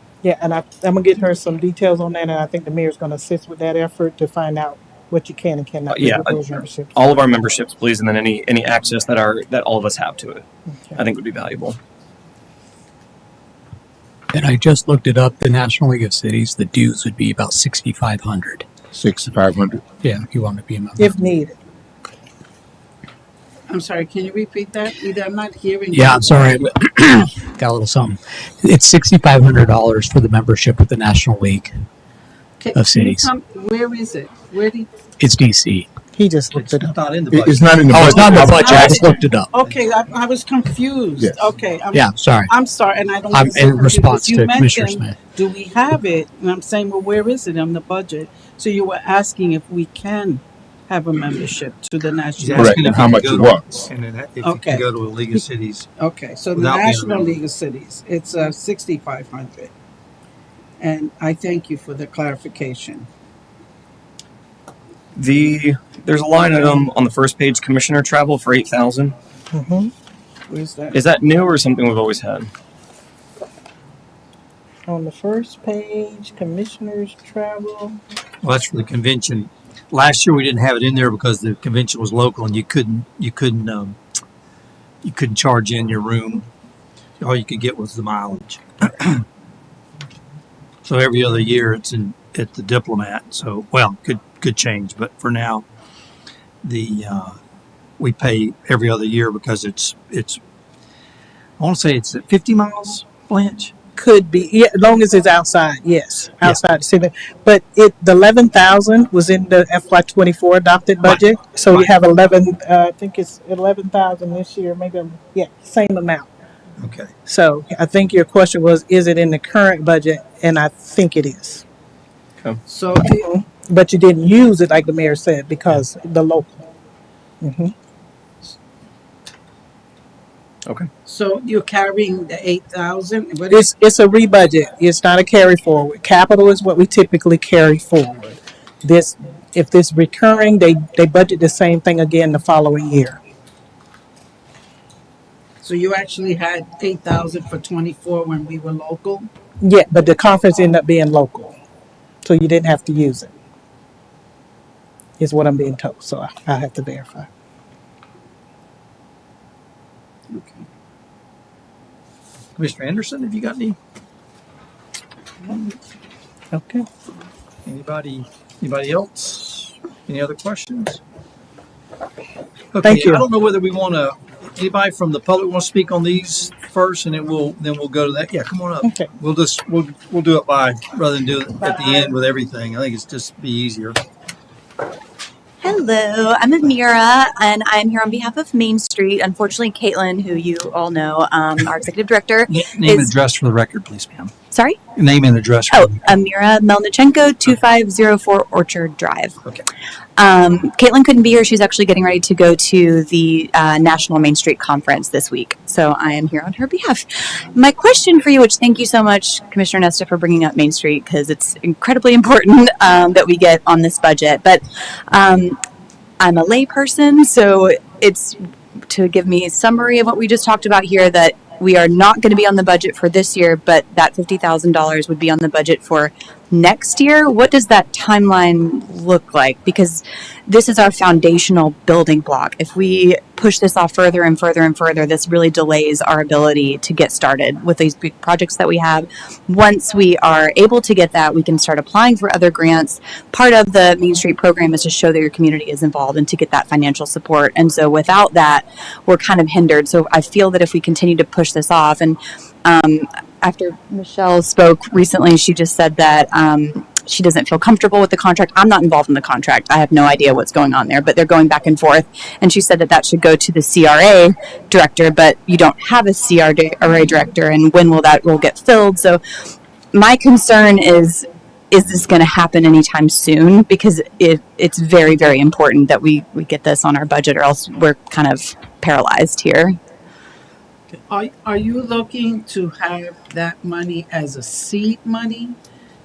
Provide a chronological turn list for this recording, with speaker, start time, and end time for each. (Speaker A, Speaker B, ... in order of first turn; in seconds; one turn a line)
Speaker A: 0.2-7.0
Speaker B: 5.9-11.8
Speaker C: 14.3-18.7
Speaker D: 18.9-19.8
Speaker C: 20.0-21.1
Speaker A: 21.0-21.6
Speaker E: 23.7-26.6
Speaker C: 25.9-31.7
Speaker E: 32.6-34.9
Speaker C: 32.8-33.3
Speaker C: 35.2-35.9
Speaker A: 36.1-37.0
Speaker F: 36.5-39.1
Speaker D: 37.3-39.2
Speaker C: 37.9-39.5
Speaker E: 38.6-38.9
Speaker E: 39.5-53.0
Speaker C: 41.9-42.5
Speaker C: 43.3-45.2
Speaker F: 52.4-55.9
Speaker D: 52.6-53.8
Speaker E: 54.4-54.9
Speaker E: 56.0-59.7
Speaker F: 56.5-57.4
Speaker E: 60.8-63.1
Speaker B: 65.2-69.2
Speaker A: 69.5-69.9
Speaker E: 70.5-71.0
Speaker B: 70.9-72.5
Speaker A: 74.9-78.0
Speaker F: 78.4-84.0
Speaker F: 85.0-86.5
Speaker F: 87.2-89.2
Speaker F: 90.8-95.7
Speaker F: 96.6-97.4
Speaker F: 98.0-100.4
Speaker F: 101.6-103.7
Speaker A: 104.0-116.3
Speaker F: 116.8-117.1
Speaker A: 117.3-121.6
Speaker E: 122.7-123.3
Speaker A: 123.1-126.6
Speaker A: 127.4-127.7
Speaker E: 131.1-133.7
Speaker A: 133.5-143.2
Speaker E: 145.6-149.3
Speaker A: 149.6-151.6
Speaker A: 152.2-153.3
Speaker A: 155.2-157.3
Speaker E: 160.3-160.7
Speaker F: 162.6-163.8
Speaker A: 166.5-166.9
Speaker F: 167.7-171.0
Speaker F: 172.7-184.0
Speaker A: 172.8-173.3
Speaker A: 178.8-179.1
Speaker G: 185.6-193.1
Speaker F: 192.5-194.3
Speaker G: 194.5-194.8
Speaker F: 194.9-196.1
Speaker G: 195.7-199.4
Speaker G: 200.2-215.6
Speaker G: 216.2-269.2
Speaker G: 269.9-279.8
Speaker E: 280.9-285.6